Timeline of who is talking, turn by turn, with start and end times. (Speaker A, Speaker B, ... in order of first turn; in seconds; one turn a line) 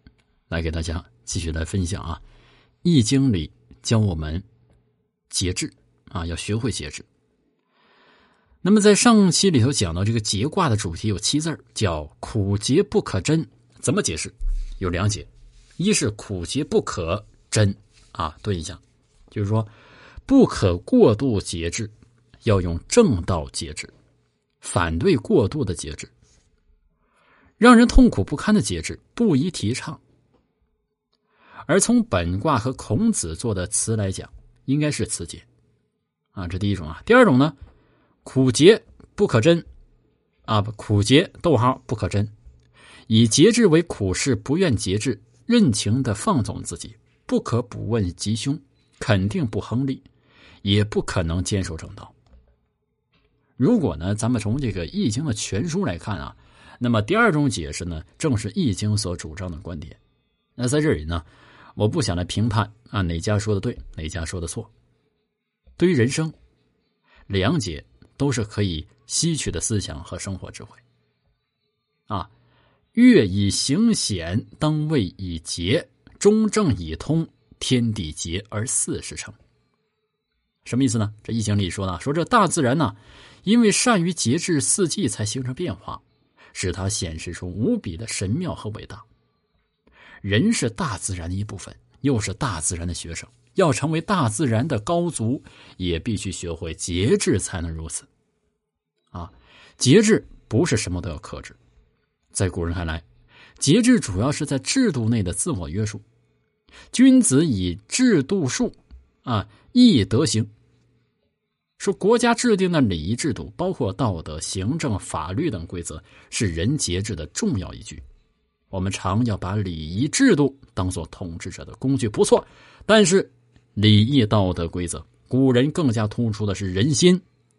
Speaker A: 0.5-2.2
Speaker A: 2.8-4.4
Speaker A: 5.3-7.0
Speaker A: 8.6-19.7
Speaker A: 20.3-21.9
Speaker A: 22.4-23.9
Speaker A: 24.6-26.1
Speaker A: 27.6-30.0
Speaker A: 31.7-35.4
Speaker A: 36.3-37.5
Speaker A: 38.2-39.6
Speaker A: 40.5-42.3
Speaker A: 43.1-50.0
Speaker A: 50.6-52.1
Speaker A: 53.6-60.0
Speaker A: 60.6-61.2
Speaker A: 61.8-64.7
Speaker A: 65.8-66.3
Speaker A: 67.3-70.8
Speaker A: 72.9-79.4
Speaker A: 80.6-86.0
Speaker A: 86.5-89.0
Speaker A: 90.2-98.1
Speaker A: 99.1-101.5
Speaker A: 102.3-103.0
Speaker A: 103.6-106.0
Speaker A: 106.9-110.5
Speaker A: 111.8-118.0
Speaker A: 118.7-127.2